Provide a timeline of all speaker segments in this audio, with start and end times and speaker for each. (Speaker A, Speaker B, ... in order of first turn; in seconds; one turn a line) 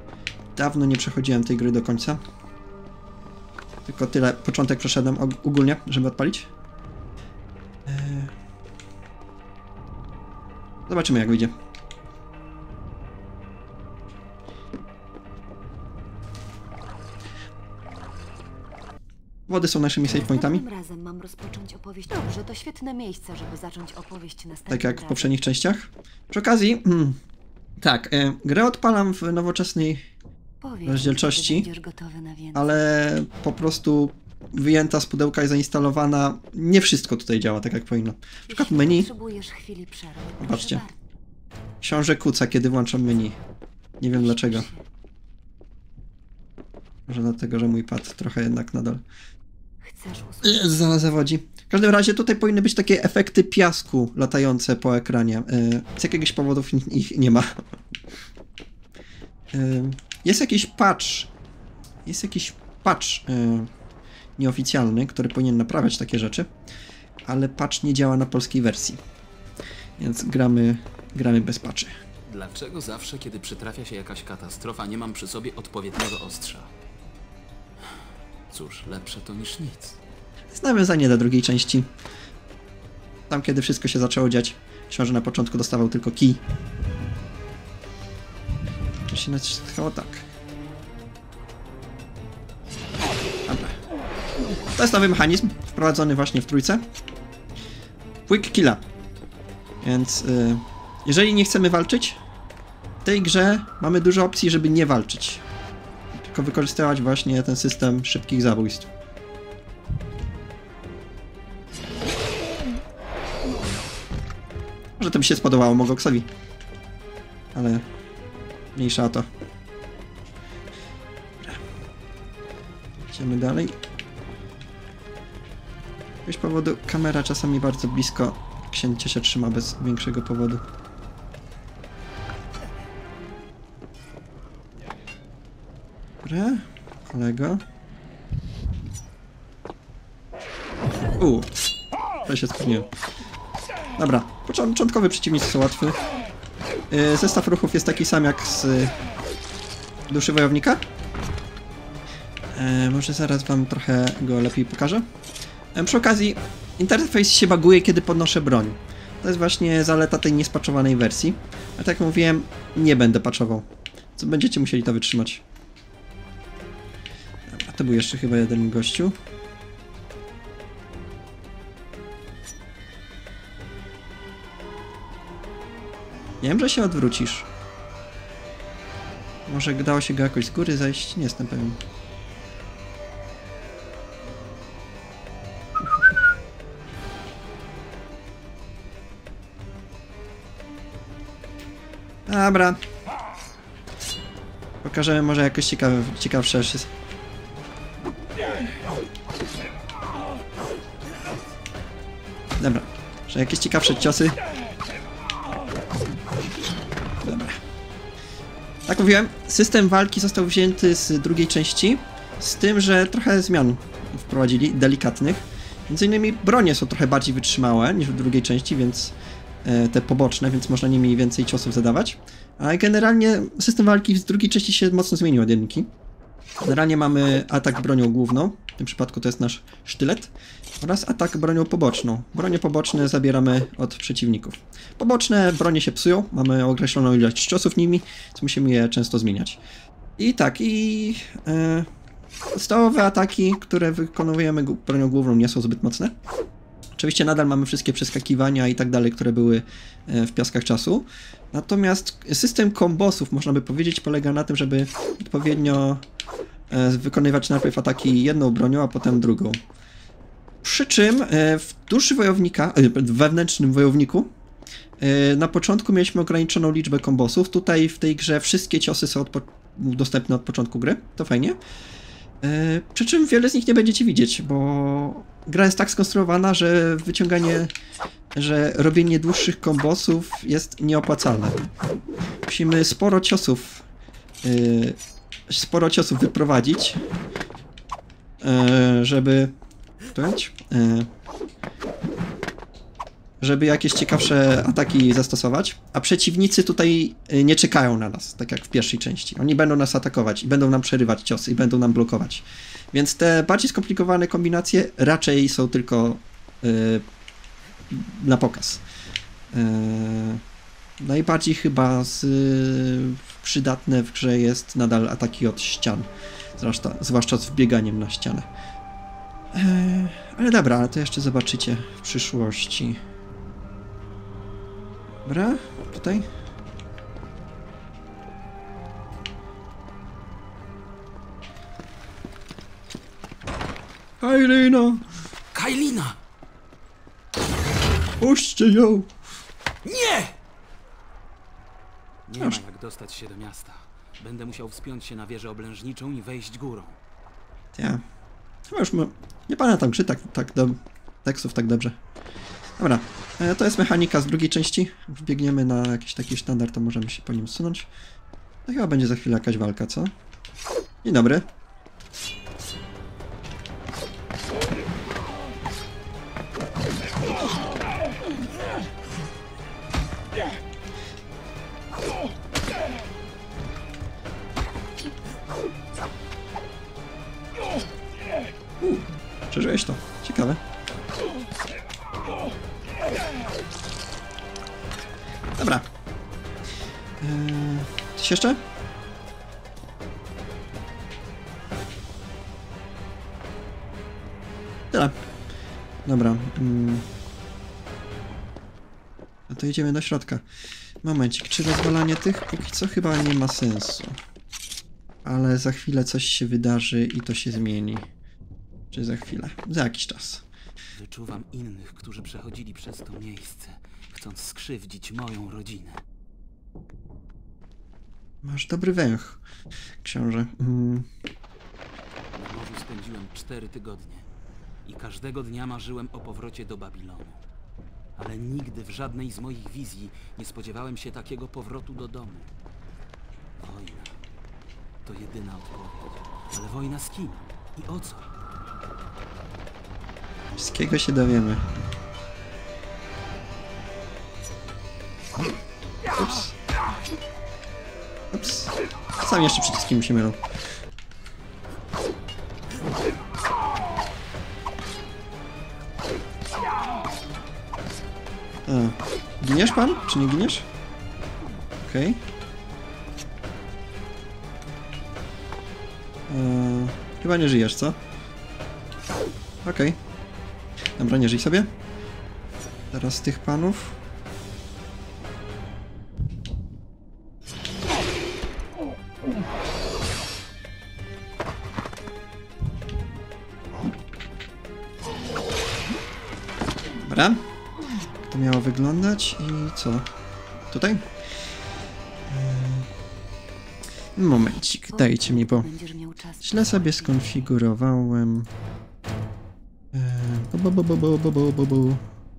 Speaker A: 0.6-2.2
Speaker A: 3.9-6.5
Speaker A: 7.8-8.3
Speaker A: 10.9-11.5
Speaker A: 19.5-20.6
Speaker B: 20.0-25.5
Speaker A: 24.7-27.2
Speaker A: 27.8-30.0
Speaker B: 30.6-32.8
Speaker A: 30.8-31.7
Speaker A: 32.5-39.1
Speaker B: 38.5-40.9
Speaker A: 40.4-40.8
Speaker A: 41.8-43.4
Speaker A: 44.0-44.7
Speaker B: 44.1-44.8
Speaker A: 47.1-49.0
Speaker B: 49.8-50.8
Speaker A: 50.4-57.6
Speaker A: 59.5-61.3
Speaker A: 62.0-63.7
Speaker A: 64.4-66.5
Speaker A: 67.2-69.0
Speaker A: 70.0-71.9
Speaker C: 72.3-76.7
Speaker C: 77.8-80.0
Speaker A: 80.5-81.9
Speaker A: 83.3-86.4
Speaker A: 89.1-90.2
Speaker A: 93.5-93.8
Speaker A: 94.8-96.8
Speaker A: 98.3-98.8
Speaker A: 99.8-102.2
Speaker A: 103.0-105.4
Speaker A: 106.2-108.9
Speaker A: 115.0-116.3
Speaker A: 117.5-117.8
Speaker A: 118.7-119.3
Speaker A: 123.1-123.8
Speaker A: 126.2-130.6
Speaker A: 136.2-137.6
Speaker A: 141.2-141.5
Speaker A: 142.2-142.9
Speaker A: 144.0-146.0
Speaker A: 146.9-148.9
Speaker A: 150.1-150.8
Speaker A: 152.5-155.1
Speaker A: 155.7-165.4
Speaker A: 167.5-169.2
Speaker A: 176.4-177.5
Speaker A: 179.5-181.8
Speaker A: 192.3-192.8
Speaker A: 194.8-196.9
Speaker A: 202.6-204.4
Speaker A: 207.2-207.6
Speaker A: 208.8-225.9
Speaker A: 226.6-239.6
Speaker A: 240.2-241.9
Speaker A: 242.5-246.1
Speaker A: 246.9-256.0
Speaker A: 256.7-259.6
Speaker A: 260.6-264.3
Speaker A: 265.0-271.6
Speaker A: 272.4-277.7
Speaker A: 278.3-281.6
Speaker A: 282.5-283.8
Speaker A: 284.4-285.0
Speaker A: 285.5-287.0
Speaker A: 288.4-289.5
Speaker A: 290.1-291.1
Speaker A: 293.4-307.0
Speaker A: 307.9-308.8
Speaker A: 309.5-310.4
Speaker A: 311.0-318.5
Speaker A: 319.5-323.0
Speaker A: 325.2-326.3
Speaker A: 334.2-335.0
Speaker C: 335.5-336.2
Speaker A: 338.2-339.1
Speaker C: 339.8-340.4
Speaker C: 342.3-347.0
Speaker A: 347.7-348.0
Speaker A: 348.7-352.0
Speaker A: 352.8-357.9
Speaker A: 358.6-360.1
Speaker A: 361.0-361.5
Speaker A: 378.8-380.6
Speaker A: 385.6-385.9
Speaker A: 387.2-388.6
Speaker A: 396.0-397.1
Speaker A: 399.5-400.4
Speaker A: 401.0-404.2
Speaker A: 405.2-408.1
Speaker A: 408.9-410.4
Speaker C: 410.9-416.0
Speaker A: 418.4-419.4
Speaker A: 420.0-421.1
Speaker C: 422.3-424.3
Speaker C: 424.8-427.4
Speaker C: 428.1-432.5
Speaker C: 433.6-434.1
Speaker C: 435.0-438.3
Speaker A: 440.5-441.6
Speaker A: 446.1-446.5
Speaker A: 448.3-450.4
Speaker A: 458.7-460.7
Speaker A: 461.8-462.2
Speaker A: 466.3-468.0
Speaker A: 469.6-470.0
Speaker A: 471.0-471.7
Speaker A: 472.9-474.0
Speaker A: 487.0-487.4
Speaker A: 488.3-490.1
Speaker A: 490.7-491.1
Speaker A: 492.3-492.9
Speaker A: 494.1-495.7
Speaker B: 494.9-497.5
Speaker A: 496.4-498.5
Speaker A: 499.9-502.0